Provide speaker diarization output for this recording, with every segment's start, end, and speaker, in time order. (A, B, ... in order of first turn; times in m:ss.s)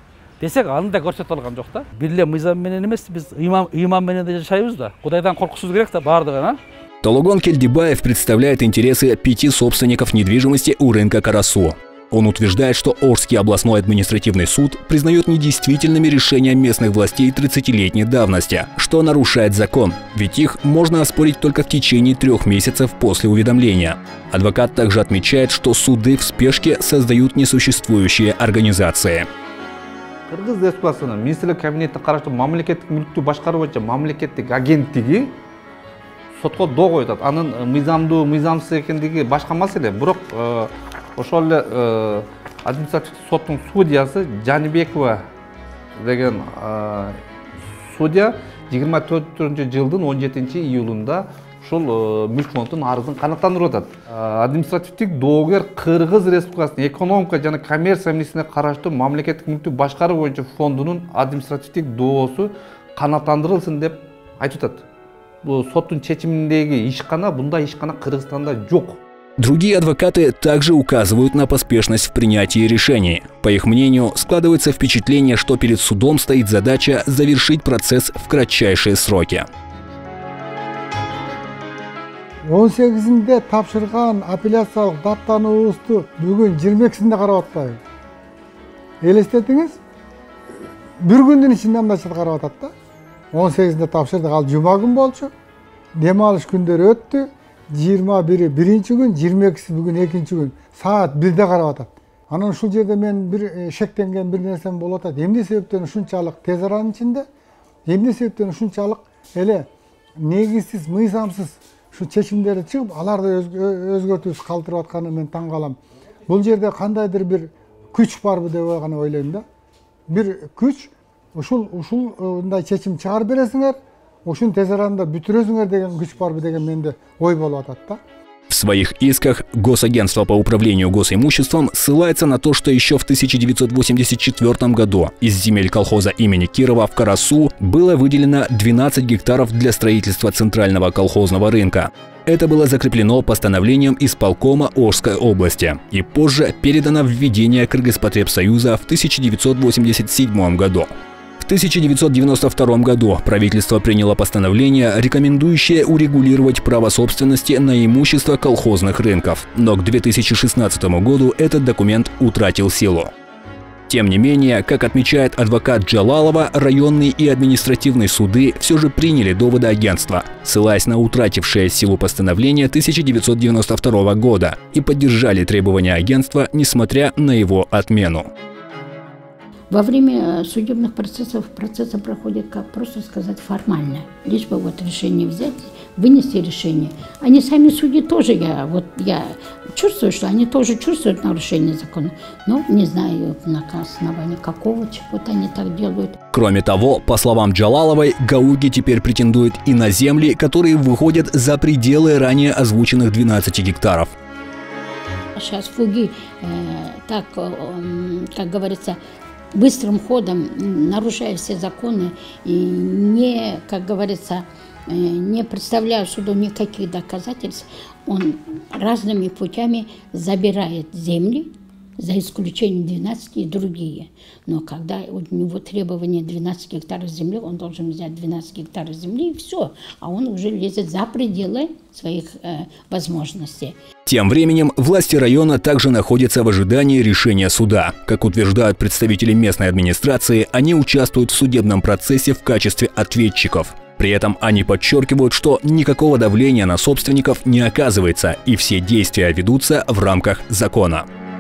0:00.4-0:06.6 A
0:07.0-0:29.3 B
0:30.3-0:35.4 C
0:36.4-0:45.2 C
0:46.0-0:47.2 C
0:47.8-1:04.8 C
1:05.4-1:09.0 C
1:09.4-1:19.5 B
1:22.5-1:27.8 D
1:29.0-1:29.8 D
1:31.0-1:32.7 D
1:33.3-1:35.3 D
1:36.0-1:47.3 D
1:47.9-1:49.7 D
1:50.2-1:55.8 D
1:56.3-1:59.4 D
2:00.1-2:08.0 D
2:08.5-2:30.9 B
2:31.4-2:43.1 B
2:43.9-2:58.3 B
2:59.7-3:16.2 E
3:16.3-3:24.1 B
3:25.4-3:29.0 E
3:29.6-3:41.5 E
3:42.0-3:53.8 E
3:54.1-4:11.1 B